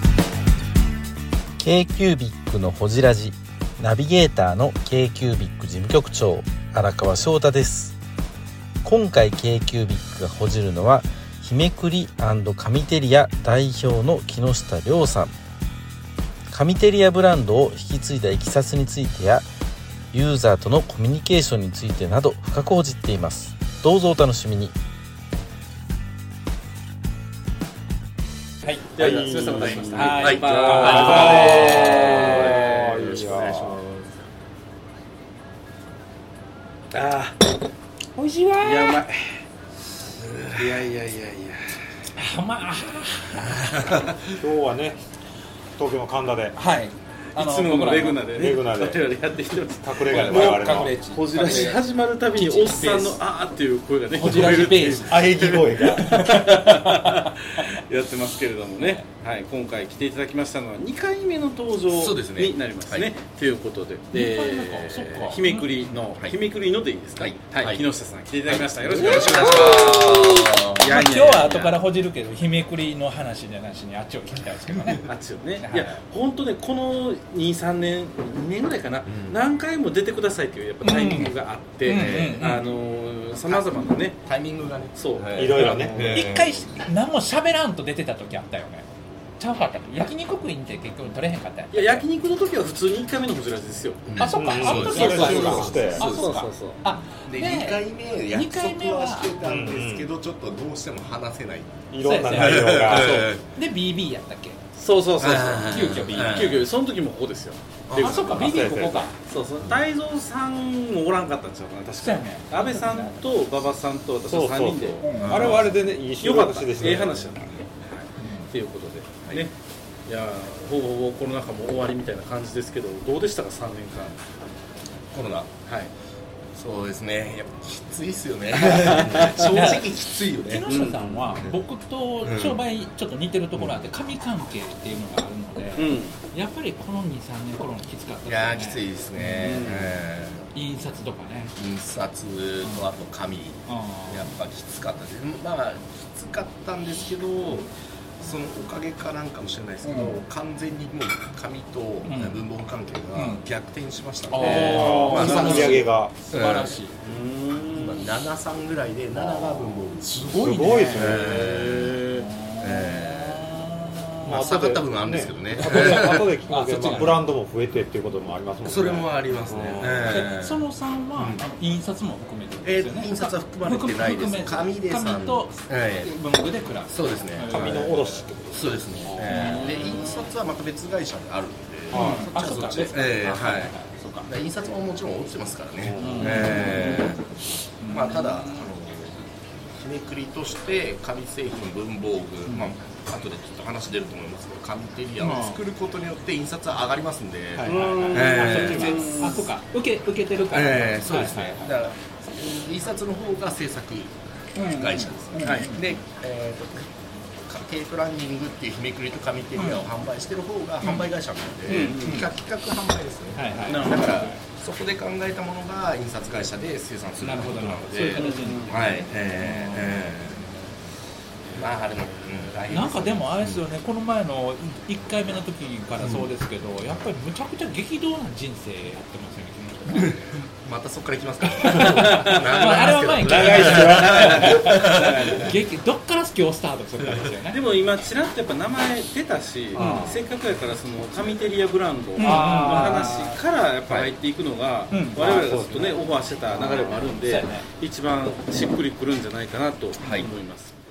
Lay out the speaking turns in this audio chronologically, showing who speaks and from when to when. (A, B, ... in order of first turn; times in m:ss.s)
0:01.6-0:08.0 A
0:08.8-0:15.3 A
0:16.5-0:19.4 A
0:20.1-0:24.7 A
0:28.9-0:34.0 B
0:29.0-0:33.8 C
0:30.0-0:31.8 D
0:30.2-0:32.6 E
0:36.9-0:37.4 B
0:38.2-0:38.9 D
0:38.6-0:39.4 B
0:40.2-0:40.7 E
0:40.5-0:41.8 B
0:42.1-0:43.6 D
0:43.5-0:44.3 E
0:44.3-0:45.0 C
0:45.8-0:46.6 C
0:46.6-0:48.3 D
0:47.3-1:11.8 B
0:48.3-0:49.1 C
0:49.8-0:51.7 C
0:50.1-0:53.2 D
0:54.1-0:55.3 D
0:55.0-0:56.2 C
0:56.0-0:57.6 D
0:58.8-0:59.0 D
1:01.9-1:03.1 E
1:04.1-1:05.7 D
1:07.2-1:07.8 E
1:08.4-1:11.1 E
1:09.0-1:10.1 D
1:10.8-1:15.0 D
1:15.1-1:24.2 B
1:15.6-1:15.9 D
1:19.0-1:19.4 E
1:20.8-1:21.3 D
1:21.8-1:22.6 D
1:21.9-1:22.7 E
1:24.2-1:26.8 E
1:24.9-1:26.2 B
1:25.3-1:26.3 C
1:25.6-1:28.8 D
1:29.4-1:32.0 D
1:31.7-1:36.8 B
1:34.1-1:35.9 E
1:34.2-1:39.3 D
1:34.2-1:36.1 C
1:37.3-1:43.4 E
1:39.4-1:40.1 C
1:41.9-1:43.4 C
1:42.0-1:44.6 D
1:44.8-1:48.5 B
1:45.2-1:46.7 E
1:45.7-1:46.4 D
1:47.9-1:48.4 E
1:48.0-1:49.1 D
1:48.0-1:49.1 C
1:49.2-1:59.5 B
1:52.0-1:53.4 D
1:54.2-1:57.6 C
1:55.0-1:55.4 D
1:55.2-1:55.6 E
1:58.2-1:58.5 D
2:00.1-2:04.2 B
2:05.1-2:05.5 E
2:05.6-2:05.9 B
2:06.5-2:11.6 E
2:08.5-2:09.8 B
2:09.4-2:09.8 D
2:10.4-2:19.7 D
2:10.7-2:11.0 B
2:12.2-2:12.6 E
2:13.5-2:13.8 E
2:15.8-2:16.2 B
2:18.3-2:20.5 E
2:19.4-2:20.0 B
2:20.5-2:21.5 D
2:21.6-2:27.7 E
2:23.7-2:24.4 D
2:28.2-2:36.7 E
2:29.8-2:30.2 D
2:32.0-2:32.4 D
2:33.1-2:33.4 D
2:34.3-2:36.9 D
2:34.4-2:36.1 C
2:34.9-2:35.3 B
2:37.0-2:38.2 B
2:37.7-2:42.0 E
2:39.2-2:39.8 B
2:40.2-2:41.3 D
2:40.3-2:41.6 C
2:41.1-2:42.3 B
2:42.1-2:44.6 D
2:42.6-2:43.5 E
2:44.2-2:50.2 C
2:44.3-2:46.3 E
2:45.6-2:47.2 D
2:48.6-2:50.6 E
2:50.1-2:57.8 D
2:52.6-2:56.1 E
2:56.9-3:03.7 E
2:57.5-2:59.8 C
2:59.2-3:00.2 D
3:01.9-3:02.3 C
3:01.9-3:04.3 D
3:04.2-3:07.2 E
3:05.8-3:06.9 C
3:06.0-3:07.2 D
3:07.8-3:08.7 D
3:07.9-3:19.5 E
3:12.4-3:12.8 D
3:15.2-3:15.6 D
3:17.6-3:19.5 B
3:17.6-3:21.7 D
3:17.7-3:18.4 C
3:20.5-3:26.9 E
3:24.5-3:25.9 D
3:25.4-3:25.7 B
3:27.4-3:40.5 E
3:29.6-3:29.8 D
3:30.8-3:31.1 D
3:31.6-3:32.3 B
3:31.7-3:32.3 D
3:33.4-3:34.4 D
3:33.7-3:34.3 B
3:37.2-3:40.7 D
3:38.2-3:38.8 B
3:41.5-3:43.6 E
3:42.7-3:50.2 D
3:46.0-3:46.3 E
3:50.0-3:55.5 E
3:51.6-3:54.7 D
3:53.2-3:54.6 C
3:53.7-3:55.6 B
3:55.3-3:57.6 D
3:57.5-4:10.7 B
3:59.8-4:00.2 C
4:02.2-4:03.4 D
4:02.2-4:03.2 C
4:03.9-4:04.1 E
4:04.9-4:05.3 D
4:05.2-4:07.1 C
4:07.2-4:07.6 D
4:10.0-4:10.3 E